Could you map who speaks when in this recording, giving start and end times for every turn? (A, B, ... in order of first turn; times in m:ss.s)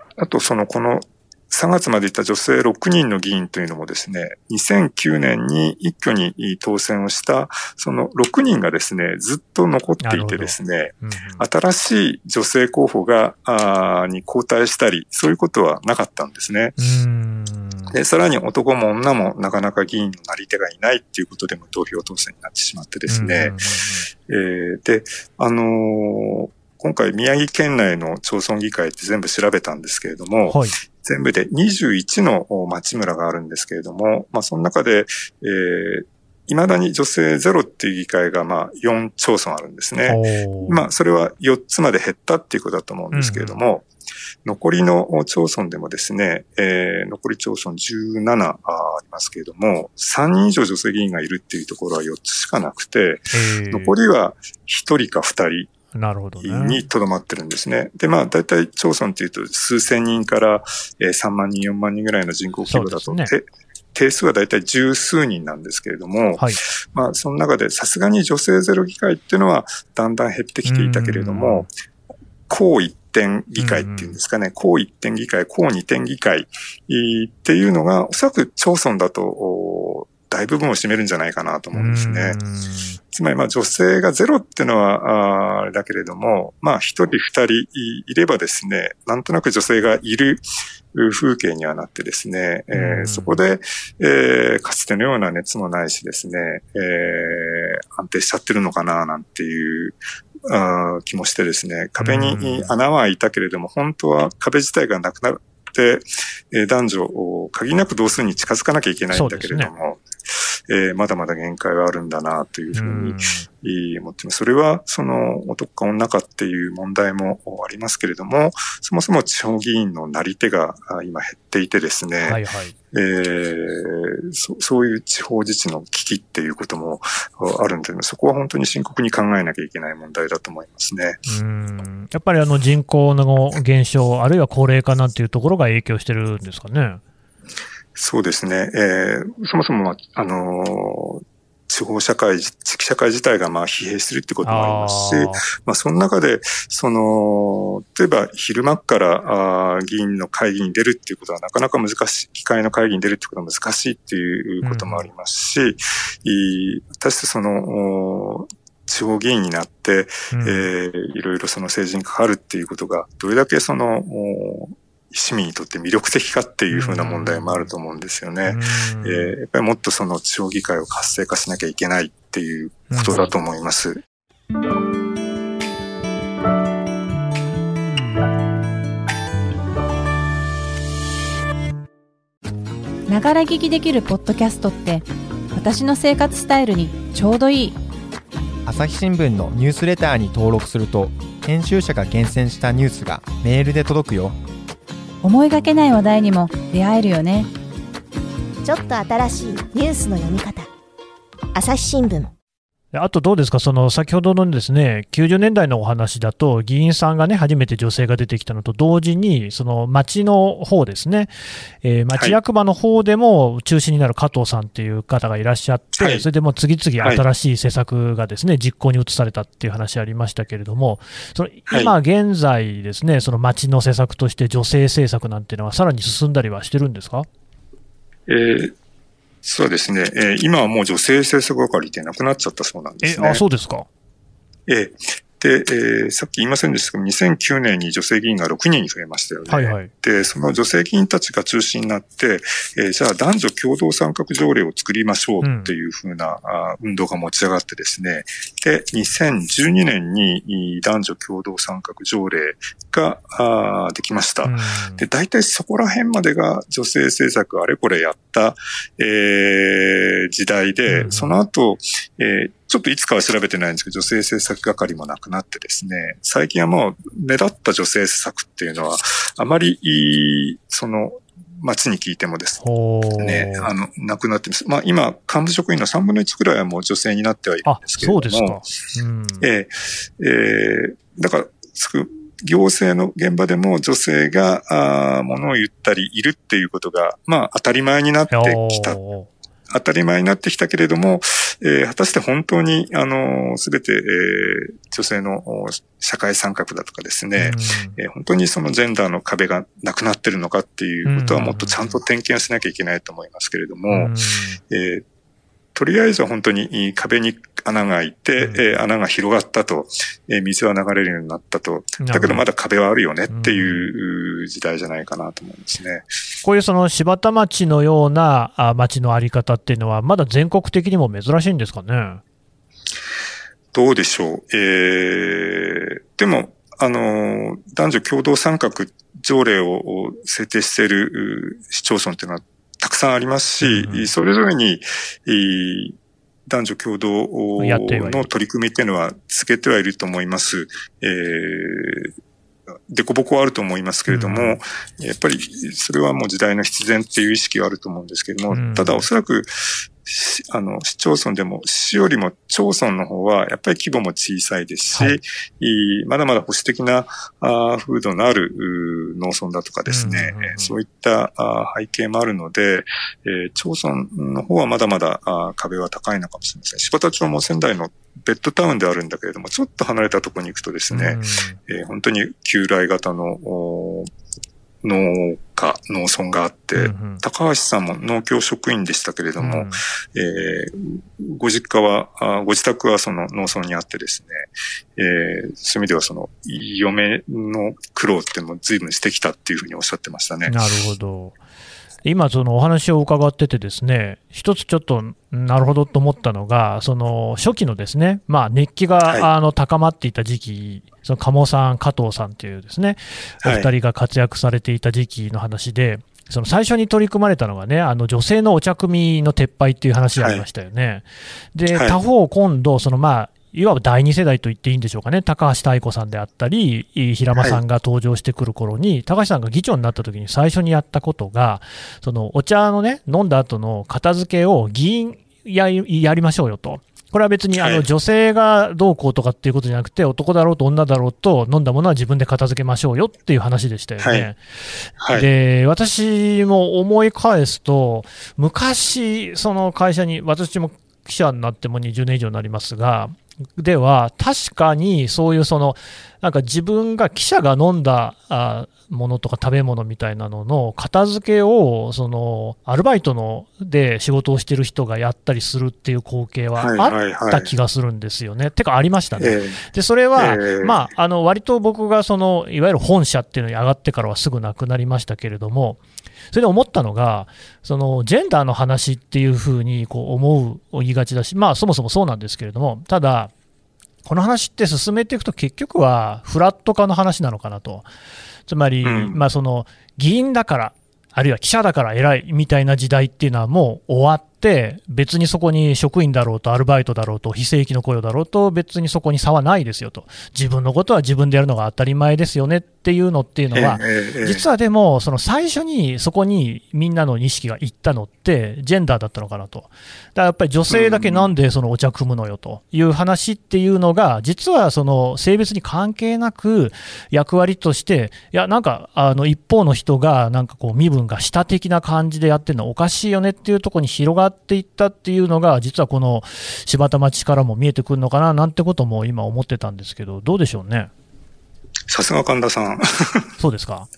0:00.2-0:16.8 A
0:10.0-0:11.4 B
0:16.8-0:18.0 B
0:17.9-0:23.6 A
0:23.1-0:24.1 B
0:24.2-0:43.9 A
0:30.5-0:30.8 B
0:40.1-0:40.9 B
0:43.1-0:43.6 B
0:44.4-0:55.7 A
0:53.3-0:54.0 B
0:55.9-0:56.8 B
0:56.4-1:11.7 A
1:02.7-1:03.3 B
1:10.7-1:11.7 B
1:12.5-1:22.4 A
1:13.6-1:14.2 B
1:21.7-1:23.0 B
1:23.1-2:02.4 A
1:32.7-1:33.4 B
1:42.0-1:42.7 B
1:49.1-1:49.7 B
1:52.7-1:53.5 B
2:02.2-2:02.8 B
2:02.9-2:11.2 A
2:11.3-2:17.0 B
2:18.0-2:54.0 A
2:24.4-2:25.4 B
2:34.6-2:35.1 B
2:40.3-2:40.7 B
2:46.7-2:47.7 B
2:48.5-2:49.3 B
2:52.9-2:53.3 B
3:03.1-3:07.8 C
3:08.7-3:14.4 D
3:15.2-3:17.5 C
3:18.6-3:20.7 E
3:21.6-3:22.3 E
3:22.9-3:47.3 B
3:36.0-3:36.3 A
3:41.7-3:41.9 A
3:48.3-3:48.7 A
3:49.4-3:53.4 A
3:53.0-3:53.9 B
3:54.7-4:32.6 A
3:59.5-3:59.9 B
4:05.4-4:05.7 B
4:14.4-4:15.1 B
4:20.9-4:21.3 B
4:32.6-4:33.7 B
4:33.2-4:38.7 A
4:37.6-4:39.5 B
4:39.4-4:49.0 A
4:48.3-4:49.3 B
4:49.7-5:04.1 A
4:57.4-4:58.0 B
5:01.1-5:02.0 B
5:03.9-5:04.6 B
5:04.7-5:05.0 A
5:05.8-5:16.1 A
5:08.4-5:08.8 B
5:12.0-5:12.4 B
5:13.3-5:13.9 B
5:16.4-5:22.2 B
5:23.7-5:36.0 A
5:33.6-5:34.1 B
5:36.5-5:42.1 A
5:37.6-5:38.3 B
5:42.9-6:14.1 A
5:44.1-5:44.6 B
5:48.5-5:49.1 B
5:59.9-6:00.8 B
6:10.9-6:11.6 B
6:14.8-6:30.6 A
6:16.8-6:17.2 B
6:19.4-6:19.8 B
6:30.5-6:31.4 B
6:32.0-7:14.4 B
6:43.4-6:43.7 A
6:50.2-6:50.4 A
6:51.7-6:52.0 A
7:07.6-7:07.8 A
7:14.0-7:14.3 A
7:15.0-7:15.3 A
7:15.1-7:45.8 B
7:36.6-7:37.5 A
7:39.2-7:39.6 A
7:40.2-7:40.9 A
7:46.3-7:53.3 B
7:54.0-7:57.9 B
7:58.5-8:40.9 B
7:58.8-7:59.2 A
8:13.5-8:14.5 A
8:20.7-8:21.3 A
8:41.9-8:43.3 A
8:43.4-8:43.9 B